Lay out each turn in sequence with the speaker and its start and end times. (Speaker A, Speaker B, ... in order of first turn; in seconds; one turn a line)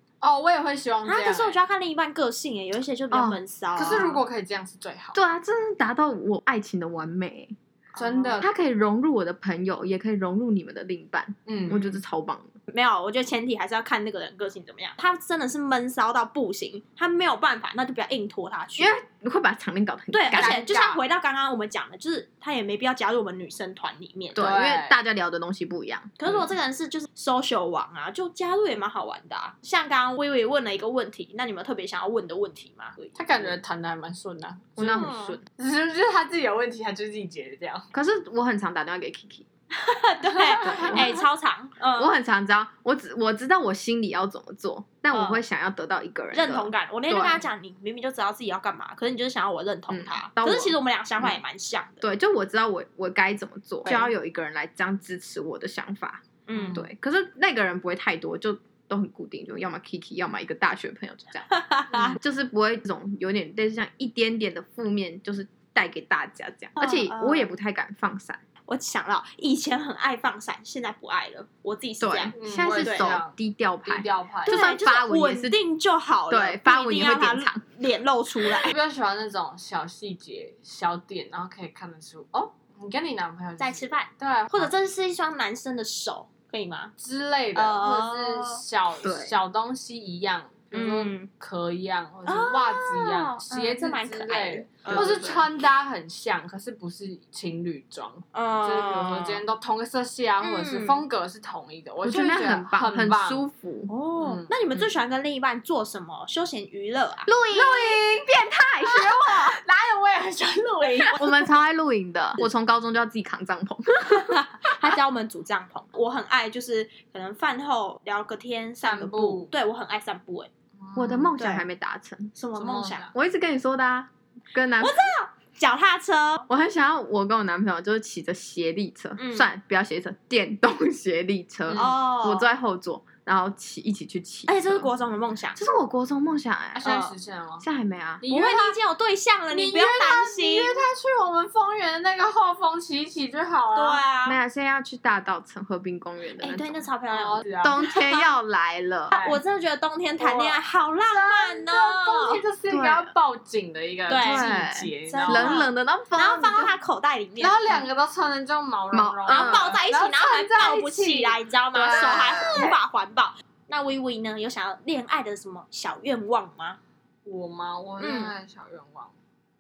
Speaker A: 0.2-1.6
Speaker B: 1.1-4.1
Speaker C: 3.1-4.2
Speaker A: 3.8-5.2
Speaker C: 5.1-7.6
Speaker B: 8.0-8.4
Speaker A: 8.0-8.5
Speaker C: 8.4-12.6
Speaker A: 11.5-12.0
Speaker B: 12.7-18.9
Speaker C: 18.8-20.6
Speaker B: 20.1-24.4
Speaker A: 20.3-21.0
Speaker C: 24.3-26.5
Speaker A: 24.4-25.0
Speaker B: 26.2-33.6
Speaker A: 33.2-37.9
Speaker C: 34.8-35.4
Speaker B: 34.8-35.4
Speaker C: 37.9-39.5
Speaker B: 39.7-42.1
Speaker A: 40.5-41.2
Speaker C: 40.6-41.2
Speaker C: 42.0-47.5
Speaker B: 45.1-45.4
Speaker B: 46.3-52.0
Speaker C: 49.9-51.4
Speaker C: 52.0-61.5
Speaker B: 56.5-56.9
Speaker A: 56.5-56.9
Speaker B: 61.5-62.2
Speaker A: 61.9-62.2
Speaker C: 62.1-68.4
Speaker B: 66.8-67.5
Speaker B: 68.7-73.2
Speaker C: 72.0-75.6
Speaker A: 72.4-74.6
Speaker B: 74.5-78.7
Speaker C: 76.3-77.6
Speaker A: 78.6-84.8
Speaker B: 83.6-86.9
Speaker A: 87.0-103.5
Speaker B: 87.5-88.6
Speaker C: 89.0-89.3
Speaker B: 90.7-91.3
Speaker B: 92.3-95.5
Speaker C: 94.9-95.4
Speaker B: 98.3-99.4
Speaker B: 100.4-101.0
Speaker C: 102.0-103.9
Speaker B: 103.9-107.3
Speaker A: 104.2-104.9
Speaker C: 107.3-109.6
Speaker A: 107.5-111.5
Speaker C: 111.2-115.0
Speaker B: 114.0-120.5
Speaker A: 118.8-119.5
Speaker A: 120.8-121.3
Speaker C: 121.0-122.4
Speaker B: 121.4-121.7
Speaker B: 122.3-123.1
Speaker A: 122.5-123.1
Speaker C: 123.1-125.1
Speaker B: 124.8-126.5
Speaker C: 126.5-134.9
Speaker B: 129.2-129.5
Speaker A: 131.7-132.0
Speaker B: 131.7-132.5
Speaker B: 134.5-135.7
Speaker C: 135.6-137.0
Speaker A: 136.8-137.7
Speaker B: 136.8-137.1
Speaker C: 137.6-138.3
Speaker A: 138.2-138.8
Speaker B: 138.3-140.8
Speaker A: 139.5-144.0
Speaker B: 143.8-144.4
Speaker C: 144.2-146.9
Speaker B: 146.4-148.3
Speaker A: 147.1-147.8
Speaker C: 147.6-149.1
Speaker B: 149.1-152.4
Speaker A: 149.1-149.4
Speaker A: 150.2-155.7
Speaker C: 152.7-153.1
Speaker B: 154.1-154.5
Speaker C: 154.2-156.8
Speaker B: 155.1-157.7
Speaker A: 157.4-162.8
Speaker C: 158.9-159.8
Speaker B: 159.3-166.8
Speaker C: 161.8-162.7
Speaker A: 167.2-169.2
Speaker B: 168.0-168.3